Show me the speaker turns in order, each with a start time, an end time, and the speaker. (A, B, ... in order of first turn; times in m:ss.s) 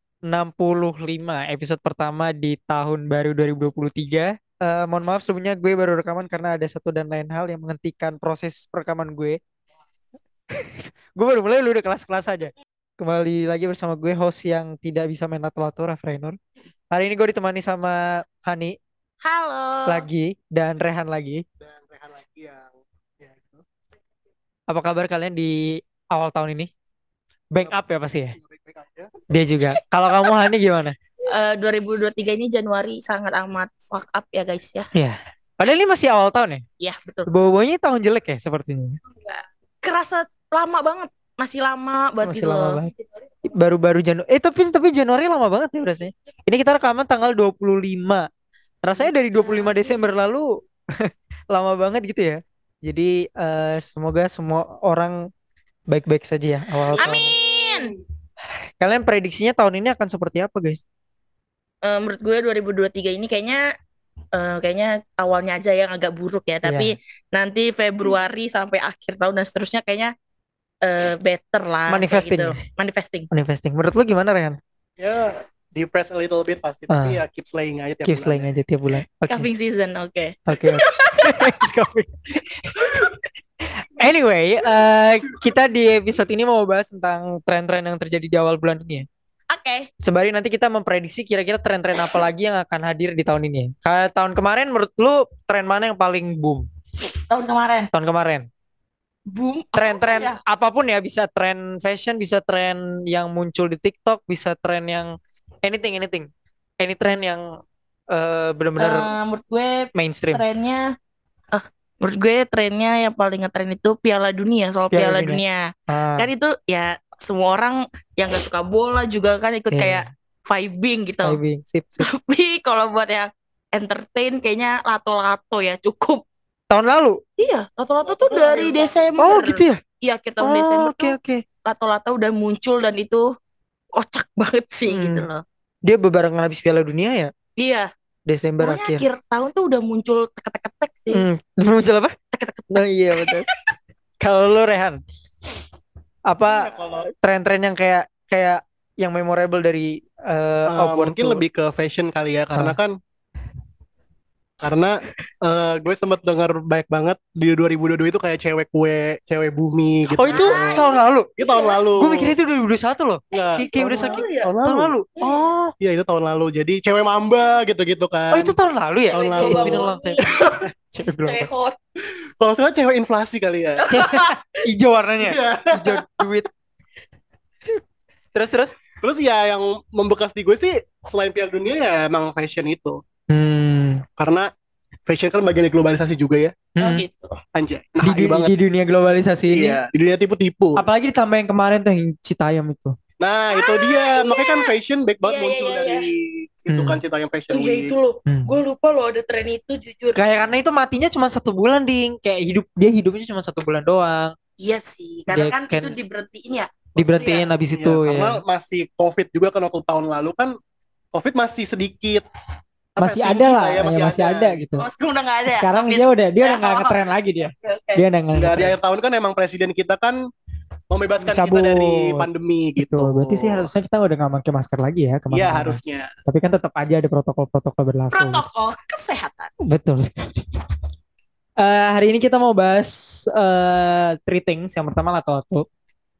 0:00.3-0:09.4 A
0:10.5-0:16.4 A
0:16.9-0:18.8 A
0:19.2-0:20.0 B
0:19.9-0:21.4 A
0:21.6-0:23.6 C
0:24.7-0:26.7 A
0:27.5-0:28.4 A
0:28.3-0:29.1 C
0:29.3-0:30.9 A
0:31.3-0:34.9 B
0:34.9-0:36.6 A
0:36.8-0:37.3 B
0:37.3-0:39.0 A
0:39.0-0:42.8 B
0:42.2-0:42.9 A
0:43.4-0:48.3 A
0:48.8-0:55.3 A
0:48.9-0:50.0 B
0:55.9-0:57.3 A
0:56.9-0:58.0 C
0:57.0-0:57.9 B
0:58.8-1:00.8 A
1:01.8-1:03.6 B
1:04.3-1:10.1 B
1:06.6-1:06.9 A
1:10.8-1:13.3 B
1:11.9-1:12.5 A
1:13.3-1:14.6 A
1:15.0-1:18.5 C
1:16.9-1:17.2 A
1:18.0-1:19.5 A
1:19.2-1:21.6 B
1:20.5-1:23.0 A
1:22.8-1:23.1 B
1:23.6-1:29.1 A
1:29.5-1:29.9 B
1:30.0-1:36.6 A
1:37.3-1:37.9 B
1:37.9-1:38.5 A
1:39.3-1:40.4 B
1:39.8-1:46.3 A
1:46.8-1:47.6 A
1:48.1-1:49.1 A
1:48.8-1:50.9 B
1:49.9-1:50.4 A
1:51.5-2:01.4 B
1:54.9-1:56.3 A
1:59.7-2:00.1 A
2:01.2-2:02.1 A
2:02.0-2:06.2 B
2:06.7-2:07.2 A
2:07.4-2:13.3 B
2:08.0-2:09.6 C
2:09.2-2:09.8 A
2:10.4-2:11.4 A
2:13.9-2:15.4 B
2:14.9-2:15.3 A
2:15.8-2:17.3 A
2:17.6-2:17.9 B
2:18.3-2:19.0 A
2:18.6-2:21.2 B
2:21.1-2:22.2 A
2:22.3-2:23.5 B
2:22.7-2:23.5 A
2:24.2-2:25.0 A
2:26.3-2:31.4 A
2:26.4-2:27.1 C
2:30.7-2:33.0 C
2:34.6-2:40.8 C
2:40.2-2:41.3 A
2:40.3-2:41.9 B
2:41.4-2:42.3 C
2:42.0-2:45.7 A
2:43.3-2:44.9 C
2:43.4-2:44.5 B
2:45.8-2:48.5 C
2:48.3-2:50.2 A
2:49.1-2:50.6 C
2:49.1-2:50.5 B
2:50.9-2:51.5 A
2:51.2-2:51.8 B
2:52.4-2:53.9 C
2:53.8-2:54.3 B
2:53.9-2:56.5 A
2:55.2-2:56.2 C
2:58.3-2:58.8 A
2:59.0-3:03.0 C
3:03.3-3:04.0 A
3:04.2-3:04.5 C
3:05.1-3:06.6 C
3:06.8-3:07.0 A
3:06.8-3:07.4 B
3:07.5-3:08.5 C
3:08.0-3:09.8 A
3:09.5-3:10.8 C
3:10.8-3:13.0 A
3:13.2-3:17.9 C
3:13.5-3:14.7 B
3:15.2-3:16.0 B
3:16.7-3:17.0 A
3:17.5-3:20.5 B
3:18.3-3:18.5 A
3:20.2-3:24.3 A
3:24.6-3:27.5 B
3:25.3-3:25.9 A
3:27.0-3:28.4 A
3:27.8-3:30.5 C
3:31.1-3:32.2 C
3:33.0-3:34.7 C
3:33.0-3:34.8 A
3:34.8-3:38.0 B
3:35.5-3:38.7 A
3:38.3-3:40.2 C
3:40.9-3:43.7 C
3:41.2-3:42.3 A
3:42.8-3:48.4 A
3:45.3-3:46.1 C
3:48.1-3:49.5 B
3:49.6-3:50.6 A
3:51.6-3:55.6 A